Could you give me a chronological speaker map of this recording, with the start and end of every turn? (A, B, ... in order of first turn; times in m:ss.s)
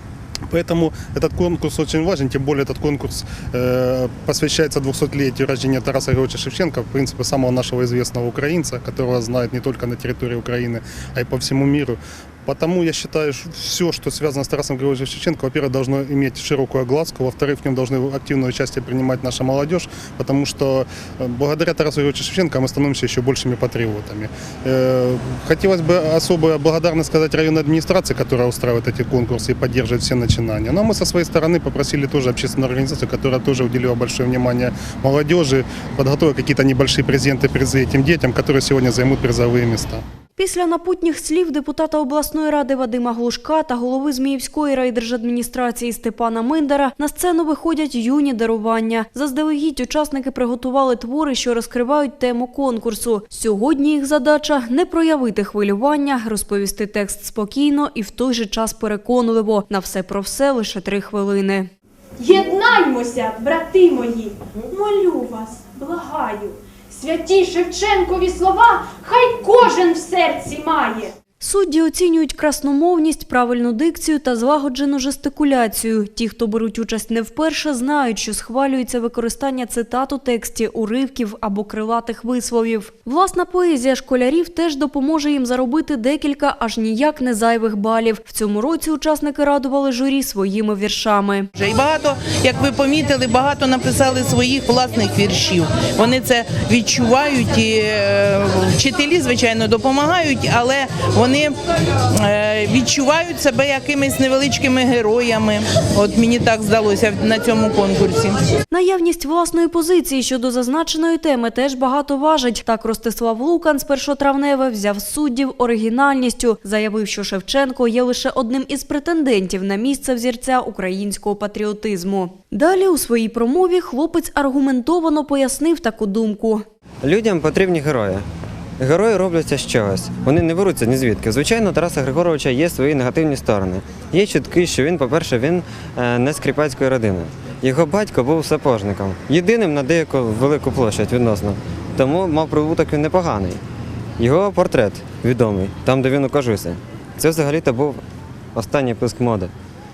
0:00.5-0:40.0 A
0:40.4-1:01.7 B
1:02.2-1:06.5 C
1:07.2-1:11.0 C
1:11.4-1:31.5 B
1:31.6-1:41.6 D
1:42.2-1:48.4 D
1:48.7-2:06.6 B
2:07.0-2:08.2 E
2:08.8-2:23.6 E
2:24.2-2:28.0 E
2:28.5-2:29.5 E